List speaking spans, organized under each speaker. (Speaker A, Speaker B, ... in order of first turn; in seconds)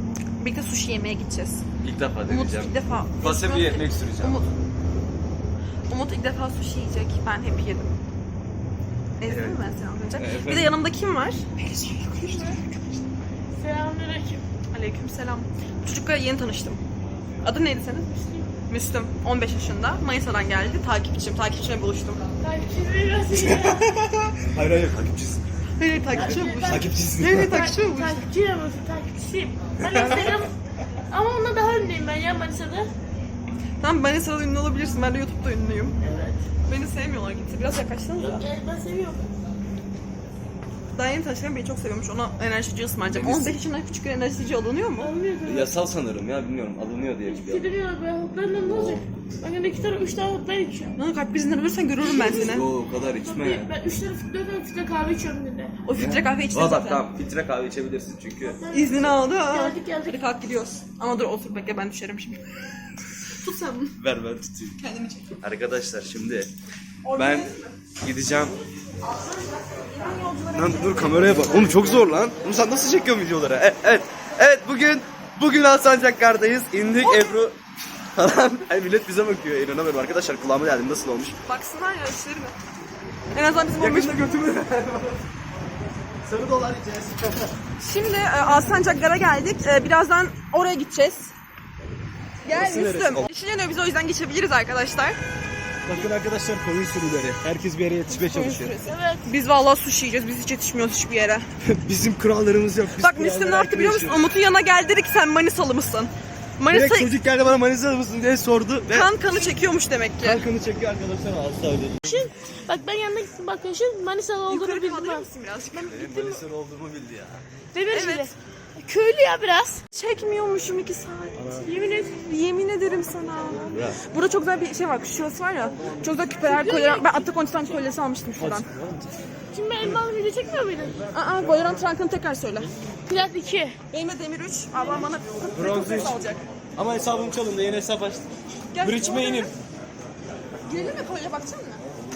Speaker A: 0.4-1.6, 2.3-4.5, 5.9-7.9, 9.2-13.0, 14.7-16.8, 17.4-22.2, 25.8-28.2, 33.8-36.0, 36.7-38.5, 40.9-45.1, 51.0-52.7, 55.8-57.0, 58.7-62.4, 63.3-64.0, 64.8-65.3, 67.0-67.5, 70.0-72.0, 77.0-77.3, 81.5-82.5, 83.3-84.2, 87.8-91.3, 92.5-95.2, 98.1-101.5, 103.0-107.1, 108.9-110.5, 114.5-116.2, 117.9-118.3, 119.9-121.5, 122.1-128.7, 131.1-132.7, 133.9-136.4, 138.7-139.5, 140.6-141.8
Speaker B: 1.8-4.4, 9.2-9.6, 10.2-10.7, 23.3-25.4, 26.6-27.6, 43.0-43.6, 45.5-47.7, 48.6-49.0, 52.3-53.7, 56.0-58.6, 64.0-64.8, 65.4-66.5, 67.2-68.6, 70.5-77.6, 78.2-81.4, 83.8-85.2, 86.2-87.5, 92.5-93.3, 95.8-98.7, 101.6-104.2, 106.7-109.3, 110.2-112.3, 115.9-117.4, 121.4-121.7, 128.3-129.1, 135.5-136.2, 136.8-139.5
Speaker C: 13.6-14.4, 22.4-23.8, 26.1-30.6, 31.1-32.9, 36.0-36.4, 38.2-39.3, 45.0-45.7, 47.2-51.0, 52.0-55.8, 58.6-60.2, 98.8-99.3, 112.0-115.3, 116.0-116.4, 117.7-119.8, 121.6-122.1, 126.4-127.2, 129.5-131.1, 133.1-133.8